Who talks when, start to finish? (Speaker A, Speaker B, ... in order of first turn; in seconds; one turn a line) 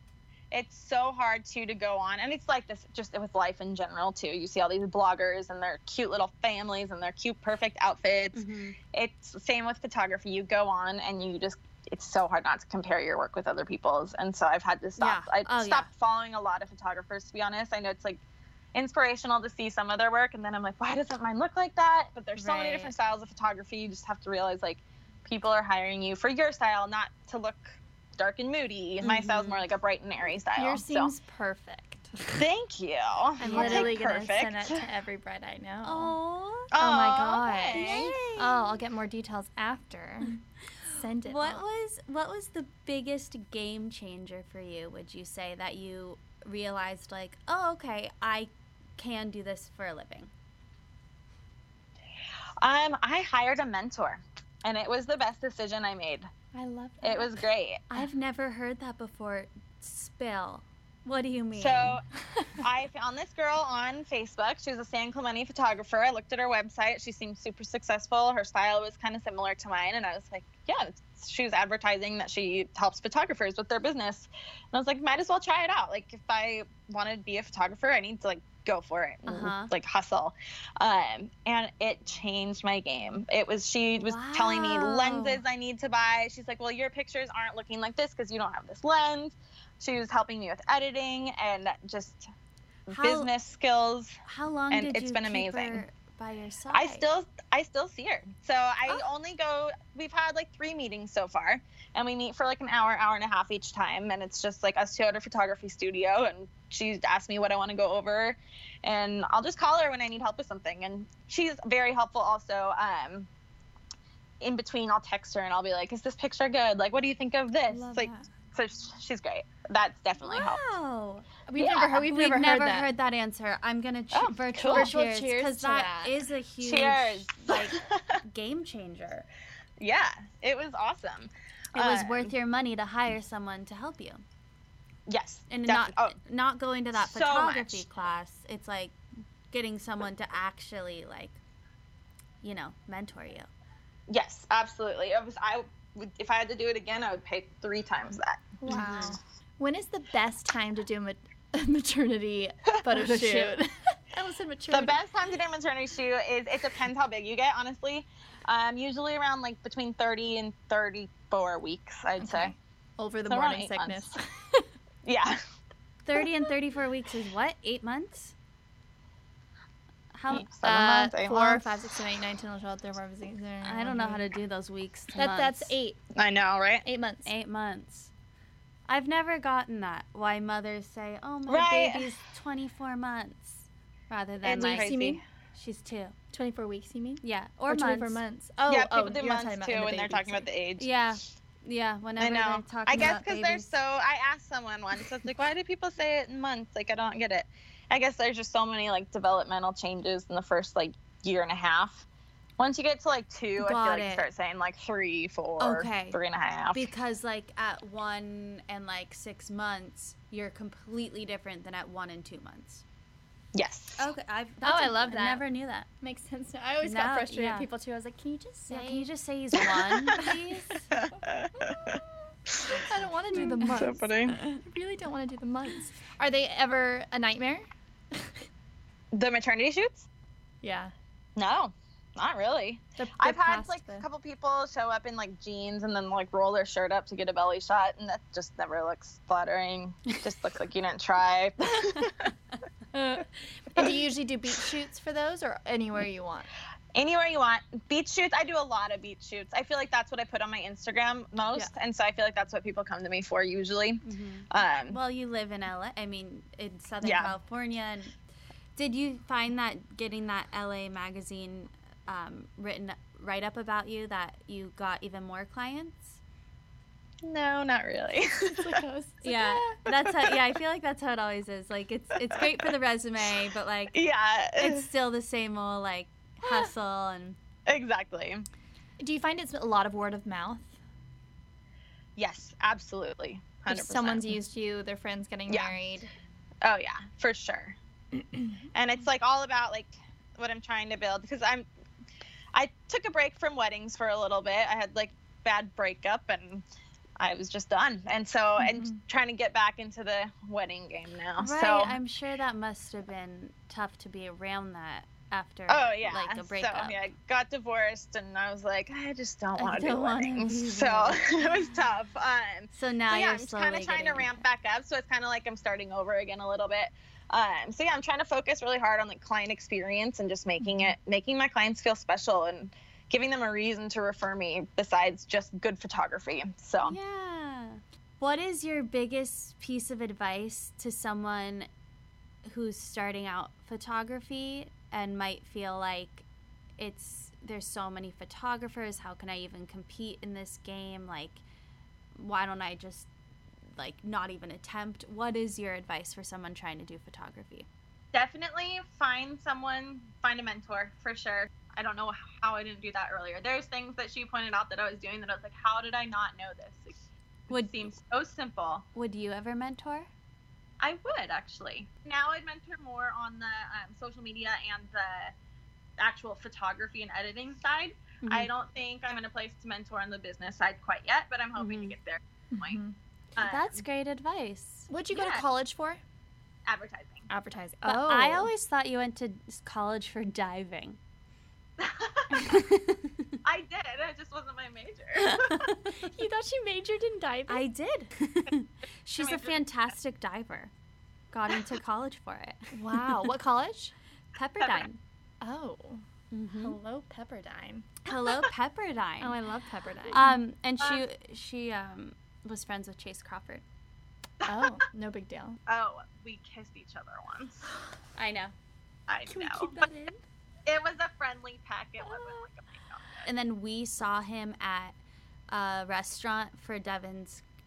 Speaker A: 0.5-18.2
Speaker B: 8.3-8.8
Speaker B: 15.0-15.9
Speaker A: 18.7-31.1
Speaker B: 22.4-22.9
Speaker B: 29.0-29.6
Speaker C: 30.6-32.3
Speaker A: 32.3-34.8
Speaker C: 33.4-36.1
Speaker B: 33.4-34.0
Speaker B: 35.8-36.7
Speaker A: 36.7-38.2
Speaker C: 36.8-41.6
Speaker B: 37.7-38.8
Speaker B: 41.2-50.3
Speaker A: 52.6-56.3
Speaker C: 56.5-57.3
Speaker A: 57.0-57.8
Speaker B: 57.9-62.0
Speaker A: 61.5-62.0
Speaker A: 62.6-92.2
Speaker B: 79.2-79.7
Speaker B: 84.0-85.4
Speaker A: 92.9-94.2
Speaker B: 92.9-93.3
Speaker B: 94.3-97.0
Speaker A: 94.7-95.8
Speaker A: 96.7-113.3
Speaker A: 114.4-120.6
Speaker C: 117.7-118.3
Speaker B: 120.2-121.3
Speaker C: 121.5-122.9
Speaker A: 121.6-122.0
Speaker B: 122.0-129.2
Speaker A: 124.1-124.9
Speaker C: 124.7-126.2
Speaker A: 126.6-128.2
Speaker A: 129.8-132.3
Speaker B: 131.7-134.2
Speaker A: 135.1-136.2
Speaker B: 135.5-138.9
Speaker A: 136.9-137.8
Speaker B: 139.5-141.4
Speaker B: 142.4-143.5
Speaker A: 144.1-149.0
Speaker C: 148.6-154.9
Speaker B: 148.7-149.2
Speaker A: 152.7-153.5
Speaker A: 154.7-162.5
Speaker C: 162.2-164.7
Speaker A: 163.3-164.1
Speaker A: 165.0-165.4
Speaker B: 166.0-168.3
Speaker B: 170.1-170.5
Speaker A: 170.3-171.9
Speaker C: 170.6-174.3
Speaker B: 173.6-175.7
Speaker C: 175.1-176.0
Speaker A: 176.1-176.8
Speaker C: 176.8-177.3
Speaker B: 177.2-178.1
Speaker B: 178.9-184.9
Speaker A: 181.5-182.1
Speaker A: 184.4-185.2
Speaker C: 184.5-185.2
Speaker B: 185.5-186.1
Speaker C: 186.3-190.5
Speaker B: 187.2-188.2
Speaker A: 188.7-190.9
Speaker B: 190.8-193.7
Speaker A: 192.2-202.1
Speaker A: 202.6-206.9
Speaker B: 203.6-204.3
Speaker B: 205.6-206.2
Speaker B: 206.7-212.8
Speaker A: 213.5-214.1
Speaker B: 214.0-215.8
Speaker C: 214.6-215.4
Speaker C: 216.0-219.1
Speaker B: 216.8-217.7
Speaker B: 218.7-220.9
Speaker A: 219.6-220.2
Speaker C: 220.2-220.4
Speaker A: 220.9-222.8
Speaker C: 221.7-221.9
Speaker B: 222.7-224.6
Speaker C: 222.8-228.3
Speaker A: 223.4-224.4
Speaker A: 229.1-230.1
Speaker C: 230.6-230.9
Speaker A: 231.3-242.3
Speaker C: 233.0-234.0
Speaker C: 242.9-246.5
Speaker A: 246.9-255.0
Speaker B: 254.0-258.1
Speaker A: 257.0-257.3
Speaker B: 258.8-266.2
Speaker A: 267.2-268.8
Speaker C: 268.4-269.7
Speaker B: 269.2-274.0
Speaker A: 270.0-270.3
Speaker A: 273.9-274.9
Speaker B: 274.6-277.4
Speaker A: 277.7-278.4
Speaker C: 279.0-280.8
Speaker A: 282.2-284.3
Speaker C: 283.7-286.1
Speaker A: 285.5-285.7
Speaker A: 286.6-287.8
Speaker C: 288.3-288.6
Speaker A: 288.7-291.6
Speaker A: 292.5-296.6
Speaker A: 297.2-301.9
Speaker C: 298.6-299.0
Speaker B: 301.4-306.9
Speaker A: 305.7-327.0
Speaker B: 309.6-311.2
Speaker B: 312.7-314.4
Speaker B: 326.8-331.7
Speaker B: 332.4-336.2
Speaker B: 336.8-341.4
Speaker B: 342.1-343.1
Speaker B: 343.8-347.7
Speaker A: 348.1-357.0
Speaker A: 357.5-358.8
Speaker B: 357.5-357.9
Speaker B: 358.9-360.1
Speaker A: 360.8-365.3
Speaker A: 366.0-372.8
Speaker B: 368.2-368.5
Speaker B: 371.6-371.9
Speaker C: 372.5-372.9
Speaker A: 373.4-373.8
Speaker B: 373.4-374.9
Speaker C: 374.9-376.0
Speaker A: 375.1-375.4
Speaker A: 376.7-377.3
Speaker C: 377.3-378.5
Speaker B: 377.8-381.0
Speaker A: 381.8-382.6
Speaker B: 382.3-383.3
Speaker A: 383.4-385.6
Speaker B: 385.2-385.9
Speaker C: 386.0-387.6
Speaker B: 387.5-390.7
Speaker A: 389.2-389.5
Speaker B: 391.3-393.2
Speaker C: 392.7-393.9
Speaker B: 394.3-395.0
Speaker C: 395.4-396.0
Speaker B: 396.3-396.8
Speaker C: 396.6-397.9
Speaker B: 398.0-399.4
Speaker C: 399.2-400.4
Speaker B: 400.1-403.6
Speaker A: 404.4-404.7
Speaker C: 404.4-405.6
Speaker A: 405.7-407.7
Speaker B: 408.1-408.5
Speaker A: 409.1-409.8
Speaker C: 409.2-410.2
Speaker A: 410.6-413.2
Speaker B: 413.2-414.9
Speaker B: 415.5-417.4